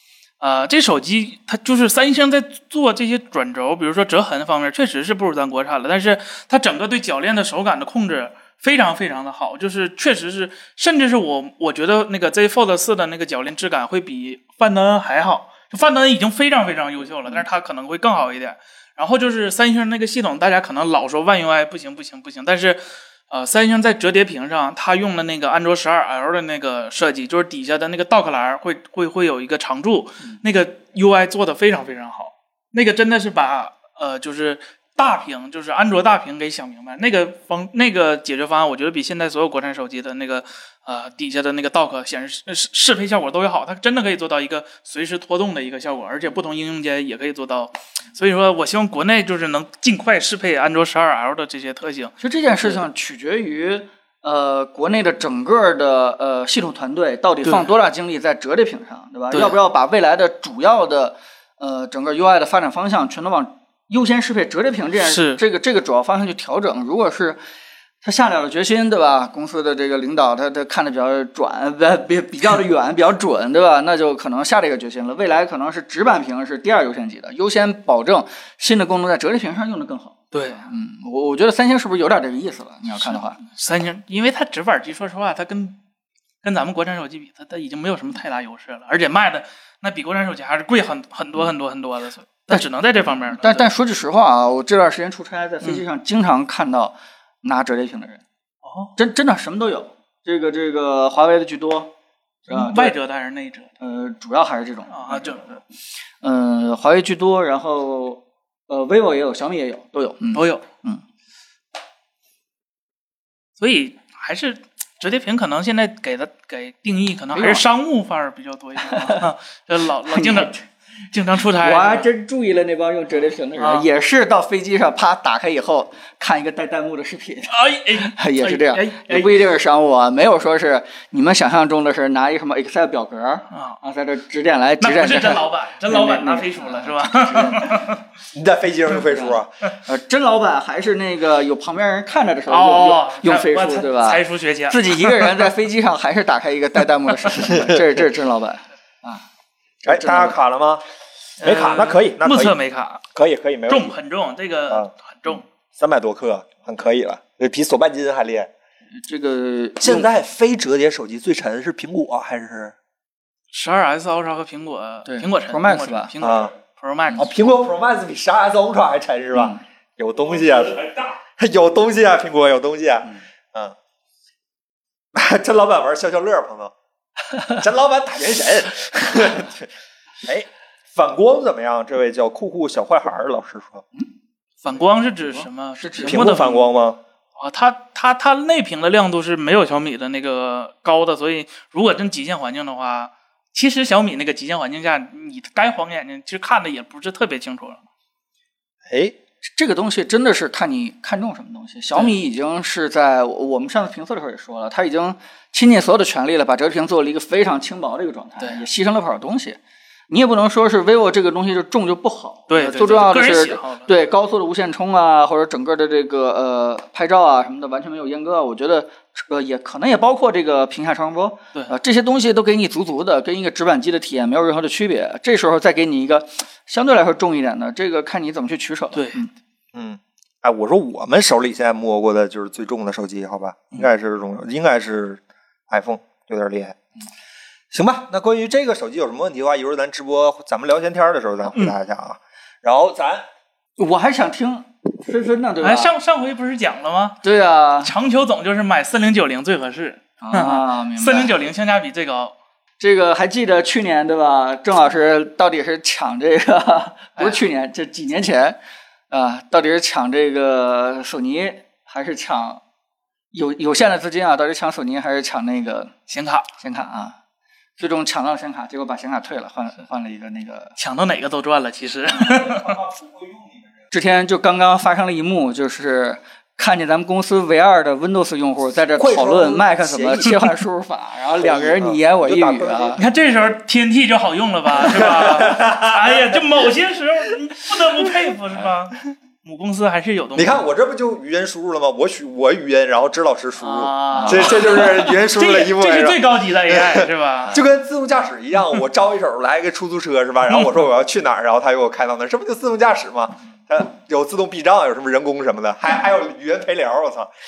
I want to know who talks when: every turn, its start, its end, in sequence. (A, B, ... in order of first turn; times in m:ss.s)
0:00.4-0:52.1 A
0:52.2-1:07.4 B
0:59.3-0:59.6 A
1:05.0-1:05.4 A
1:08.0-1:23.4 B
1:20.3-1:20.6 A
1:23.0-1:25.8 A
1:26.4-1:33.6 A
1:33.3-1:38.2 B
1:38.6-1:38.9 A
1:39.0-1:41.9 B
1:42.5-1:43.0 B
1:42.5-1:43.7 A
1:43.8-1:45.6 B
1:44.9-1:45.6 A
1:46.2-1:51.0 B
1:50.3-1:50.6 A
1:53.6-2:00.6 A
1:57.3-1:57.6 B
1:58.9-1:59.2 B
2:00.1-2:00.6 B
2:01.1-2:02.1 A
2:01.6-2:17.9 B
2:03.6-2:03.9 A
2:07.5-2:09.4 A
2:13.5-2:13.8 A
2:14.8-2:18.0 A
2:18.3-2:19.5 C
2:19.1-2:29.2 B
2:22.5-2:25.5 A
2:27.4-2:27.8 C
2:29.8-2:30.4 B
2:29.8-2:30.8 C
2:31.4-2:32.6 C
2:31.4-2:33.0 A
2:33.1-2:34.0 C
2:33.7-2:35.4 A
2:35.8-2:38.5 C
2:39.0-2:40.1 B
2:39.8-2:42.8 C
2:43.5-2:47.5 A
2:45.1-2:46.1 B
2:46.2-2:46.5 C
2:47.2-2:53.8 C
2:49.3-2:49.6 B
2:55.1-2:56.7 C
2:57.5-2:59.7 C
3:00.2-3:03.8 C
3:04.6-3:06.7 A
3:05.3-3:06.2 B
3:06.0-3:07.0 C
3:07.4-3:17.8 A
3:18.9-3:19.2 C
3:19.6-3:29.6 B
3:30.1-3:49.3 B
3:32.5-3:33.9 A
3:49.7-3:56.8 C
3:57.7-4:03.2 C
4:03.8-4:05.9 B
4:05.6-4:07.2 A
4:07.2-4:07.9 B
4:07.8-4:12.3 A
4:10.2-4:11.4 B
4:12.8-4:18.6 B
4:19.1-4:22.6 B
4:23.3-4:25.9 B
4:26.1-4:26.5 A
4:26.6-4:27.2 B
4:27.8-4:30.8 B
4:30.8-4:32.8 A
4:32.3-4:33.7 C
4:33.9-4:43.0 B
4:39.0-4:40.4 C
4:41.4-4:43.0 C
4:43.0-4:50.6 A
4:44.7-4:46.7 C
4:50.4-5:07.3 C
4:53.6-4:57.6 A
4:54.1-4:54.8 B
5:00.5-5:00.8 A